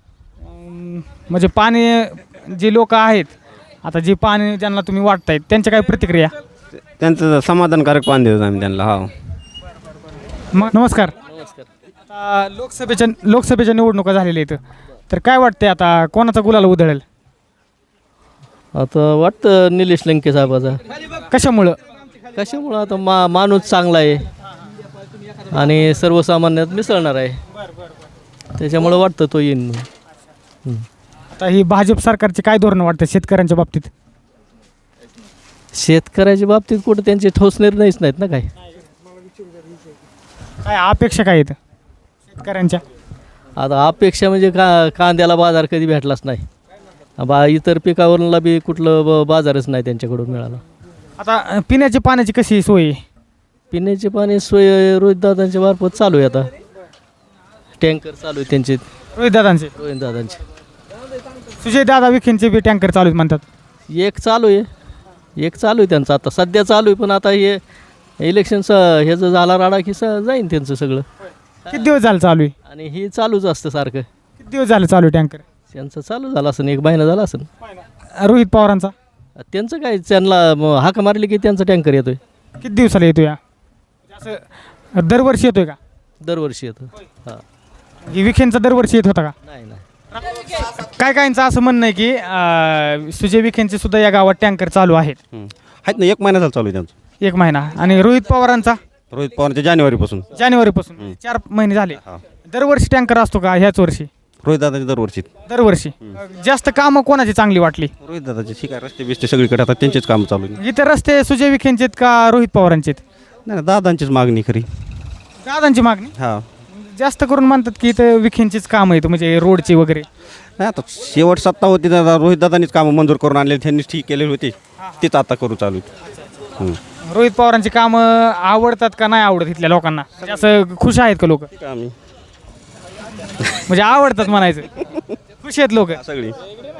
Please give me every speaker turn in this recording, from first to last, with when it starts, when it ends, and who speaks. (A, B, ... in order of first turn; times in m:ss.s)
0:00.5-0:03.3 A
0:03.8-0:06.3 A
0:10.5-0:11.1 A
0:11.4-0:11.7 B
0:12.1-0:17.0 A
0:18.8-0:20.8 B
0:21.3-0:21.8 A
0:22.4-0:24.3 B
0:25.5-0:27.4 B
0:28.6-0:29.9 B
0:31.4-0:33.9 A
0:35.7-0:38.5 B
0:40.6-0:41.6 A
0:42.3-0:42.8 A
0:43.6-0:46.4 B
0:47.2-0:50.6 B
0:51.2-0:53.0 A
0:53.7-0:56.5 B
0:57.8-0:58.8 B
0:59.2-0:59.7 A
0:59.8-1:00.4 B
1:01.6-1:03.4 A
1:03.9-1:04.7 B
1:05.4-1:07.6 B
1:08.2-1:11.1 B
1:11.7-1:12.5 A
1:12.7-1:14.1 B
1:14.4-1:15.4 A
1:15.7-1:17.5 B
1:18.2-1:18.9 A
1:19.4-1:22.2 B
1:22.6-1:23.4 A
1:24.1-1:25.8 A
1:26.2-1:27.4 B
1:28.1-1:29.3 A
1:29.5-1:29.8 B
1:30.3-1:35.2 A
1:35.3-1:36.9 C
1:37.2-1:38.8 A
1:39.1-1:40.3 C
1:40.4-1:42.0 A
1:42.5-1:44.1 A
1:44.4-1:45.3 C
1:45.5-1:47.9 A
1:48.0-1:50.6 C
1:50.6-1:53.0 A
1:53.5-1:54.7 C
1:55.4-1:56.1 A
1:56.2-1:56.4 C
1:56.7-2:00.0 A
2:00.6-2:05.9 C
2:07.1-2:11.5 A
2:11.6-2:11.9 C
2:13.7-2:14.7 A
2:15.4-2:16.0 A
2:16.0-2:16.4 C